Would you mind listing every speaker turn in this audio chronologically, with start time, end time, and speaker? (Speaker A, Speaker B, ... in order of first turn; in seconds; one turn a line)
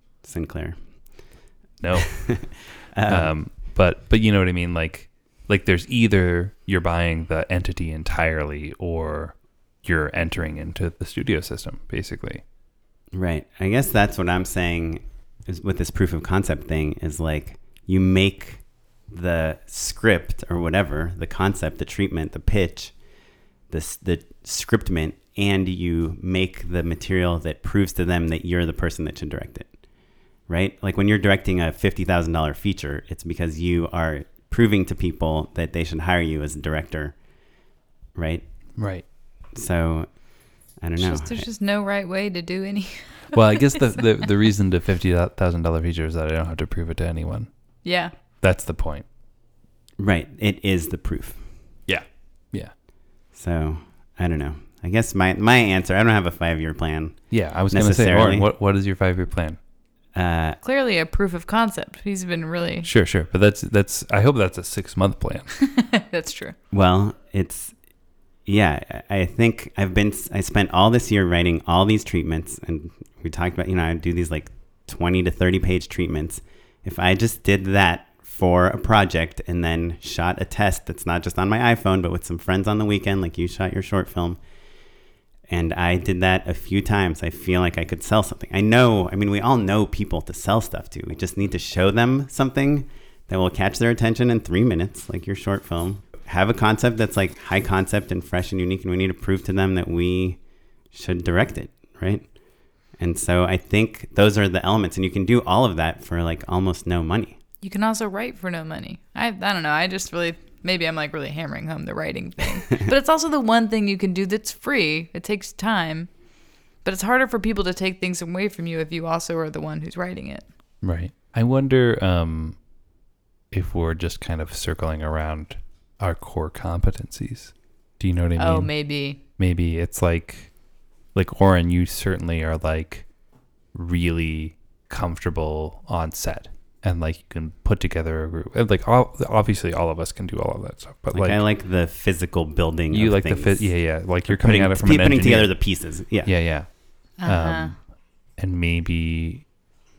Speaker A: 0.2-1.3
Speaker B: 1.8-12.4
Speaker A: 2.2-3.4
Speaker A: 13.1-23.0
Speaker A: 23.7-29.8
Speaker A: 30.5-37.2
Speaker A: 38.1-38.8
Speaker B: 38.8-39.1
Speaker A: 39.5-41.5
Speaker C: 41.0-44.0
Speaker B: 43.3-49.1
Speaker C: 47.8-48.1
Speaker A: 50.0-51.5
Speaker B: 51.9-52.7
Speaker A: 53.3-58.5
Speaker B: 57.3-59.6
Speaker A: 60.1-60.6
Speaker C: 60.6-62.9
Speaker B: 62.8-65.5
Speaker C: 65.6-66.6
Speaker A: 66.7-67.8
Speaker A: 68.5-84.4
Speaker A: 85.5-102.4
Speaker A: 102.9-107.4
Speaker C: 107.6-116.2
Speaker C: 116.8-120.5
Speaker B: 120.8-122.6
Speaker B: 123.5-130.6
Speaker C: 128.4-129.2
Speaker B: 131.1-133.1
Speaker B: 133.7-141.4
Speaker A: 141.1-146.3
Speaker B: 142.9-149.5
Speaker C: 147.2-147.8